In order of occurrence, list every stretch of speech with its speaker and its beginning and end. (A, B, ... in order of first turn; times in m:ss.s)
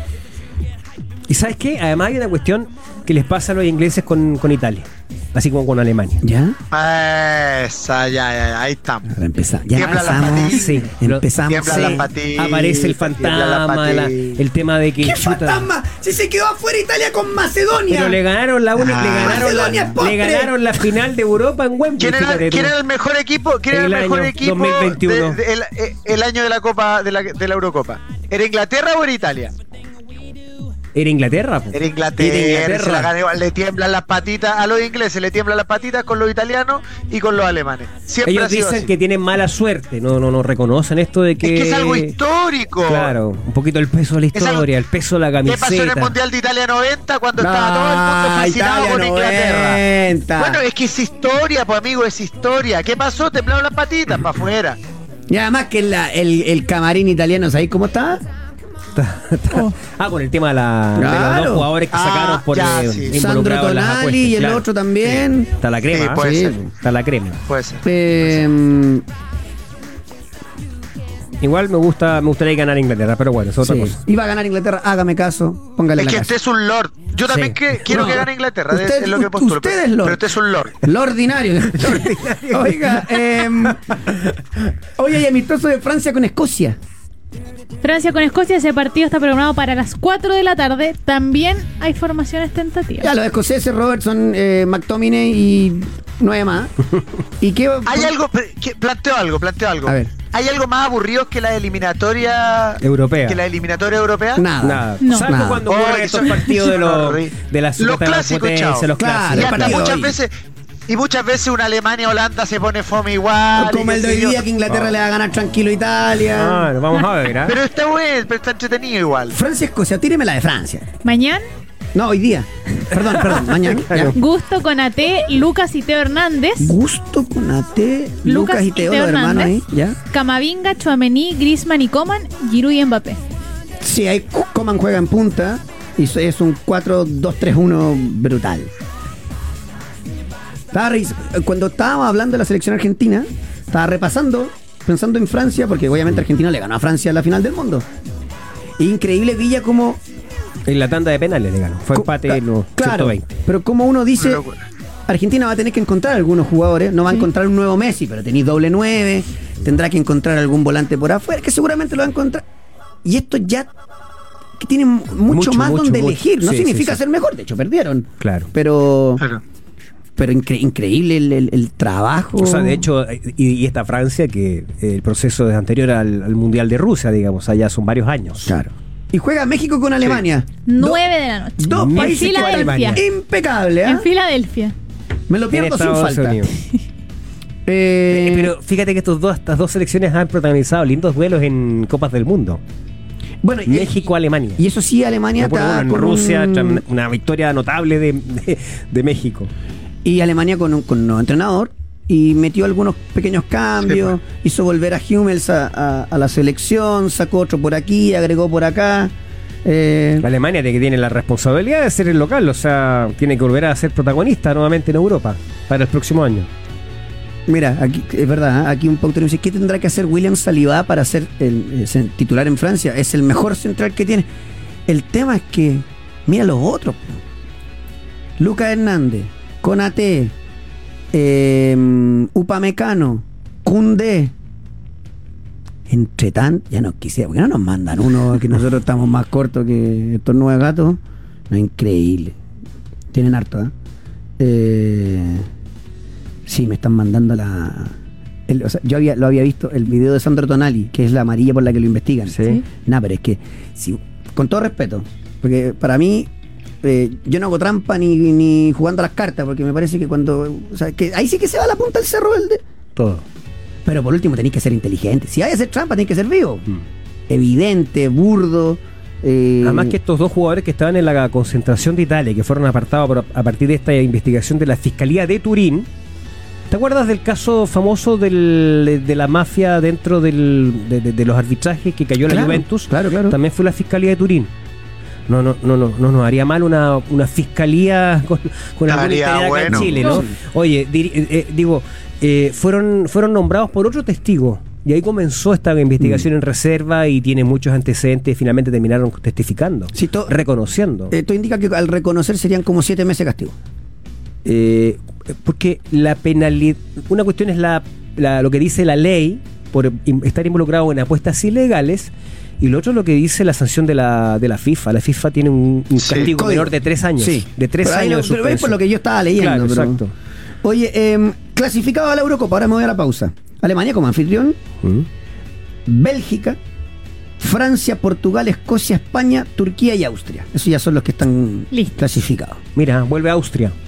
0:01.3-0:06.2 A
0:06.2-0:06.6 B
0:06.7-0:09.1 C
0:09.0-0:12.1 B
0:09.7-0:10.7 C
0:10.5-0:15.7 A
0:11.5-0:14.4 C
0:15.0-0:18.2 B
0:17.9-0:22.7 A
0:18.8-0:19.7 C
0:19.0-0:20.5 B
0:22.0-0:29.5 C
0:23.7-0:25.4 A
0:30.9-0:33.1 A
0:31.7-0:38.9 C
0:38.2-0:42.1 A
0:41.4-0:43.1 C
0:42.9-0:46.2 A
0:44.3-0:44.7 C
0:45.4-0:49.8 C
0:47.4-0:50.6 B
0:50.4-0:54.8 C
0:55.3-0:58.2 B
0:58.9-1:04.6 A
1:00.9-1:01.7 B
1:01.9-1:03.1 C
1:03.1-1:05.5 B
1:05.6-1:07.4 A
1:05.9-1:06.6 C
1:06.2-1:06.6 B
1:07.4-1:07.8 C
1:07.8-1:09.0 B
1:11.4-1:14.0 A
1:13.6-1:16.3 B
1:16.0-1:20.8 C
1:17.3-1:18.0 A
1:17.8-1:20.3 B
1:20.8-1:24.0 B
1:21.8-1:23.4 A
1:25.0-1:26.8 B
1:27.8-1:33.1 D
1:33.0-1:36.7 B
1:37.4-1:38.2 B
1:37.8-1:44.4 C
1:39.8-1:40.1 B
1:42.8-1:43.4 A
1:44.4-1:45.6 B
1:44.6-1:49.9 A
1:45.0-1:45.3 D
1:45.6-1:50.3 C
1:49.0-1:50.2 B
1:50.9-1:54.4 C
1:53.5-1:56.7 B
1:54.7-1:54.9 A
1:56.3-1:57.6 A
1:57.4-1:59.4 C
1:59.3-2:00.9 B
2:01.0-2:01.4 D
2:01.9-2:04.2 B
2:02.9-2:04.1 A
2:04.1-2:06.7 D
2:06.6-2:10.0 B
2:08.2-2:09.5 D
2:10.1-2:13.2 D
2:13.8-2:18.7 B
2:20.7-2:27.8 B
2:28.8-2:30.0 B
2:30.7-2:33.3 A
2:31.9-2:34.4 B
2:34.2-2:34.6 C
2:35.1-2:42.4 B
2:43.0-2:43.7 B
2:44.6-2:49.2 B
2:45.3-2:47.0 A
2:48.2-2:48.5 A
2:50.2-2:52.9 B
2:52.4-2:58.5 A
2:58.4-3:01.0 B
3:00.6-3:03.0 D
3:01.6-3:04.0 B
3:01.7-3:03.0 A
3:03.8-3:04.7 D
3:05.3-3:06.5 B
3:05.5-3:06.5 A
3:07.6-3:08.5 B
3:08.1-3:12.6 A
3:13.4-3:16.8 B
3:13.7-3:14.6 A
3:15.4-3:19.5 A
3:20.0-3:29.1 B
3:29.6-3:30.3 B
3:30.2-3:36.5 A
3:37.5-3:44.3 B
3:44.9-3:47.2 B
3:48.4-3:50.3 B
3:51.1-3:54.3 B
3:55.9-4:02.4 B
4:03.1-4:03.7 B
4:04.4-4:05.5 B
4:06.4-4:07.9 B
4:08.5-4:16.3 B
4:16.8-4:22.6 B
4:23.0-4:23.2 A
4:23.8-4:26.6 B
4:27.3-4:30.0 B
4:29.6-4:35.9 A
4:36.7-4:44.5 A
4:42.2-4:43.4 B
4:45.3-5:01.1 A
4:48.9-4:50.2 C
4:49.7-4:50.4 B
4:56.0-4:56.2 B
4:59.9-5:00.4 B
5:01.1-5:03.5 B
5:04.4-5:18.8 A
5:16.0-5:16.3 C
5:16.2-5:20.0 B
5:19.4-5:20.1 A
5:20.6-5:24.6 B
5:25.8-5:26.6 B
5:27.4-5:32.6 B
5:32.7-5:33.7 A